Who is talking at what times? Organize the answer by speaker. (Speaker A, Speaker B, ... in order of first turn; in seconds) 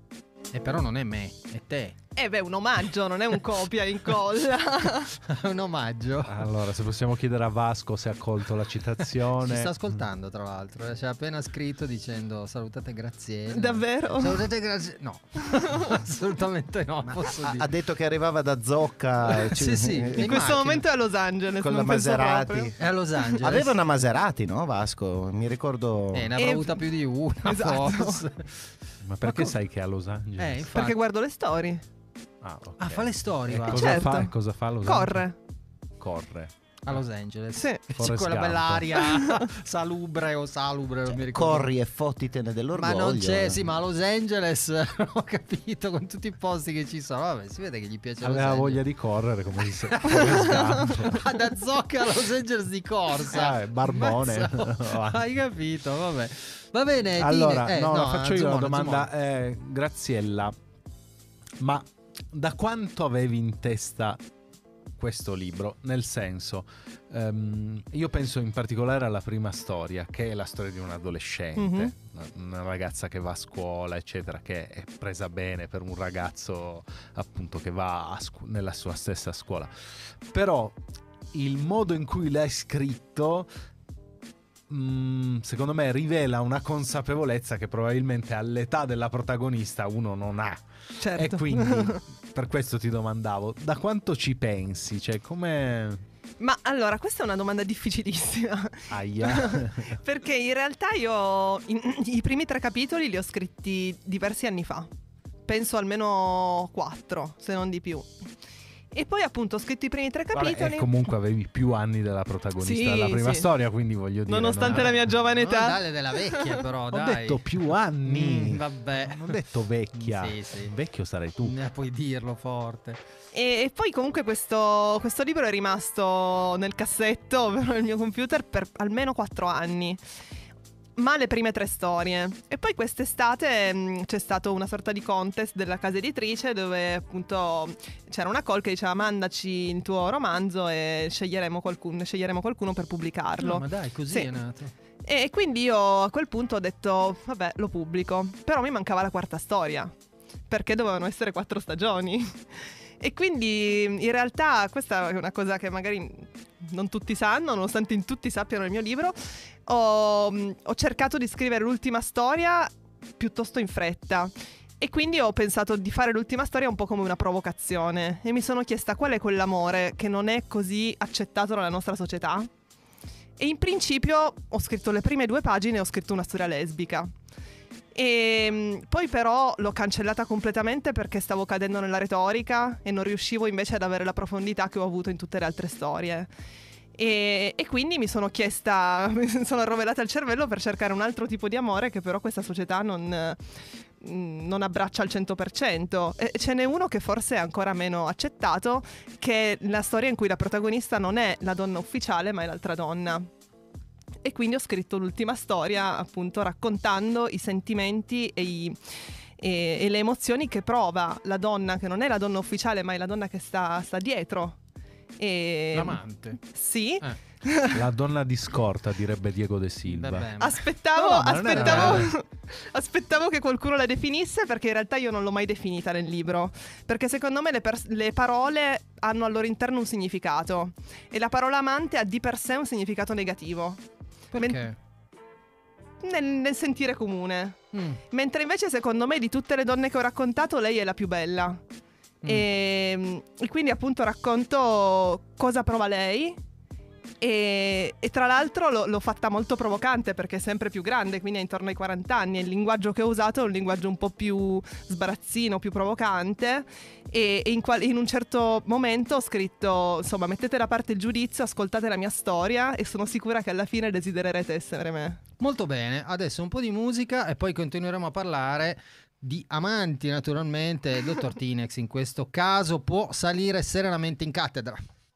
Speaker A: 0.5-2.0, 5.2-6.5, 9.4-17.7, 19.3-20.9, 22.8-23.8, 26.1-28.6, 30.4-31.0, 32.8-34.1, 36.9-41.7, 42.7-48.8, 49.8-59.1, 114.6-117.5, 118.0-119.4, 120.0-120.7, 121.4-123.0, 143.4-144.7, 215.7-216.4, 219.9-220.6, 221.5-222.1, 234.3-234.8, 237.7-238.0, 265.4-274.8
Speaker B: 2.2-5.1, 13.5-14.5, 15.5-15.8, 20.2-22.7, 26.4-26.9, 27.4-28.3, 30.7-31.8, 33.7-35.4, 37.6-37.8, 39.1-39.5, 71.6-71.9, 91.0-92.0, 96.4-104.9, 105.5-108.1, 108.9-110.9, 112.6-113.5, 114.3-116.6, 123.3-130.0, 131.0-144.3, 145.1-149.9, 150.5-172.5, 173.4-177.1, 177.9-186.3, 187.0-193.4, 194.0-203.3, 204.2-214.6, 215.2-217.8, 220.4-233.8, 234.4-234.7, 236.0-241.6, 242.2-246.4, 247.2-265.2
Speaker C: 6.3-9.7, 29.0-30.7, 32.4-35.2, 36.0-37.0, 37.9-38.9, 48.2-51.3, 53.3-55.2, 57.2-60.5, 61.6-64.2, 65.0-79.7, 80.2-80.8, 81.3-83.5, 84.7-96.0, 98.9-100.0, 110.3-115.0, 116.9-121.6, 217.7-220.3, 221.0-222.1
Speaker D: 17.1-20.5, 21.6-22.8, 23.3-26.3, 41.1-43.6